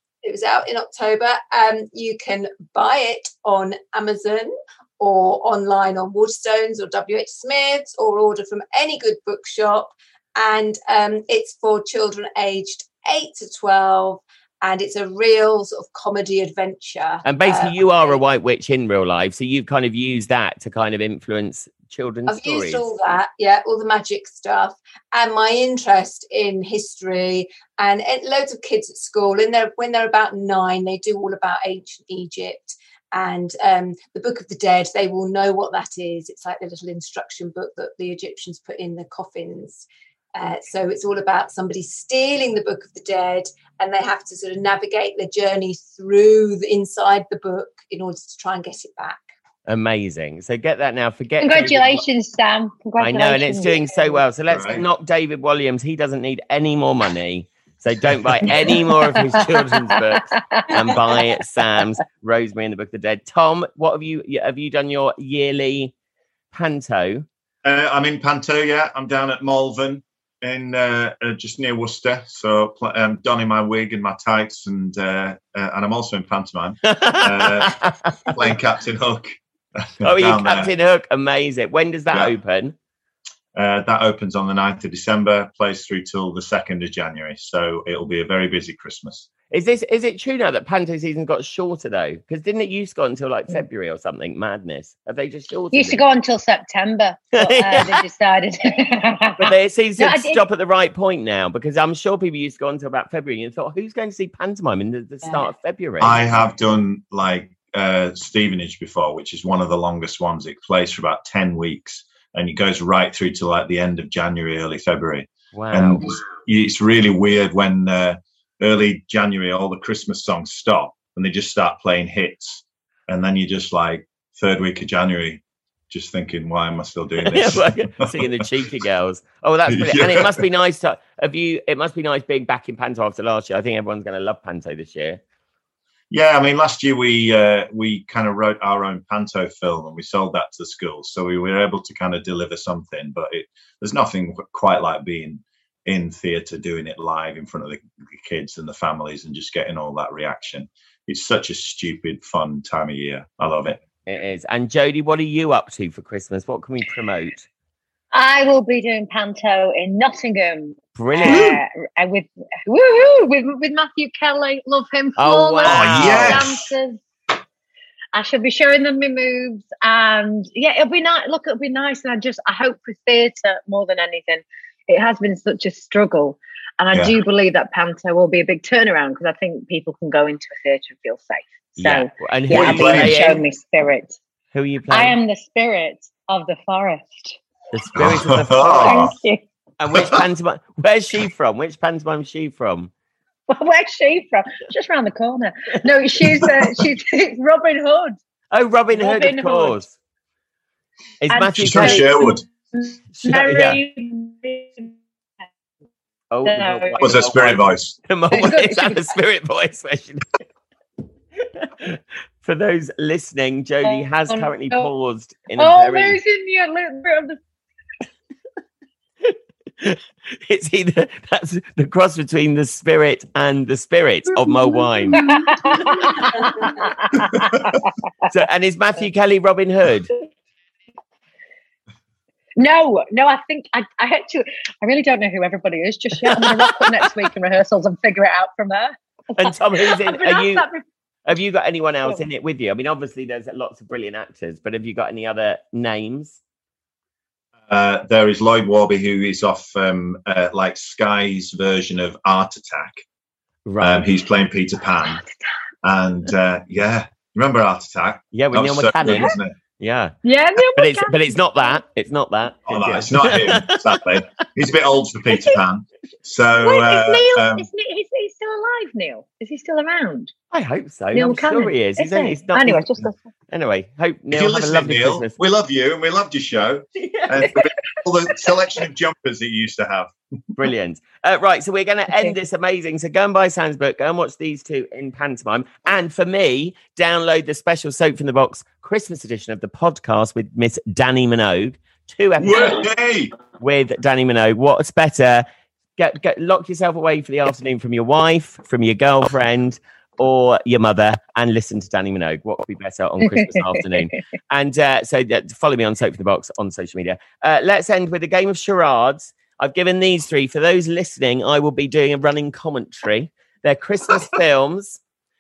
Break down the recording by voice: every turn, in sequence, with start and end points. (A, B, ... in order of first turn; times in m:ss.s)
0:00.2-0:18.2 A
0:17.2-0:22.9 B
0:22.3-0:49.2 A
0:49.6-0:52.0 B
0:51.4-0:54.2 C
0:53.0-1:05.9 B
0:54.5-0:54.8 D
0:58.4-1:01.0 C
1:06.5-1:07.2 B
1:07.6-1:20.7 D
1:16.9-1:18.5 B
1:20.0-1:22.7 B
1:22.1-1:22.4 D
1:23.5-1:29.3 D
1:29.5-1:36.0 B
1:35.7-1:40.4 C
1:37.3-1:38.0 B
1:39.4-1:46.3 B
1:45.2-1:45.5 C
1:46.0-2:08.4 D
1:55.5-1:56.2 B
2:07.2-2:15.2 B
2:09.7-2:10.4 D
2:16.1-2:33.8 D
2:34.0-2:37.4 B
2:38.1-2:47.0 C
2:40.9-2:41.6 B
2:41.2-2:41.6 D
2:45.2-2:46.5 B
2:45.6-2:46.7 D
2:48.1-3:04.2 C
3:01.8-3:03.4 B
3:02.5-3:03.3 D
3:04.5-3:05.2 B
3:04.9-3:07.4 C
3:07.7-3:09.1 B
3:08.0-3:09.1 D
3:08.8-3:09.4 C
3:09.8-3:12.9 B
3:09.9-3:10.2 D
3:13.5-3:18.2 C
3:18.5-3:19.9 B
3:18.9-3:19.8 C
3:21.2-3:22.1 B
3:21.3-3:25.0 C
3:21.6-3:22.4 D
3:23.1-3:23.8 B
3:26.3-3:30.4 B
3:26.4-3:27.0 C
3:27.0-3:27.9 D
3:28.3-3:29.2 C
3:31.4-3:36.2 B
3:33.8-3:34.9 C
3:35.6-3:37.4 C
3:39.2-3:45.2 B
3:44.3-3:48.3 C
3:45.1-3:46.9 A
3:48.3-3:50.1 B
3:52.6-4:00.8 C
3:56.2-3:57.2 B
3:59.3-4:00.6 B
4:01.2-4:06.4 B
4:07.7-4:13.0 D
4:13.6-4:14.0 B
4:13.8-4:15.2 D
4:15.2-4:15.4 C
4:15.8-4:19.5 D
4:18.3-4:24.0 B
4:19.0-4:19.4 C
4:20.2-4:21.8 C
4:22.7-4:27.7 D
4:25.3-4:25.6 C
4:26.6-4:30.3 C
4:30.5-4:32.8 B
4:31.1-4:33.2 C
4:33.5-4:35.3 B
4:34.3-4:40.1 D
4:37.0-4:37.6 B
4:40.6-4:52.9 B
4:52.4-4:53.3 D
4:53.6-4:55.4 B
4:56.0-5:15.0 B
5:03.2-5:04.2 C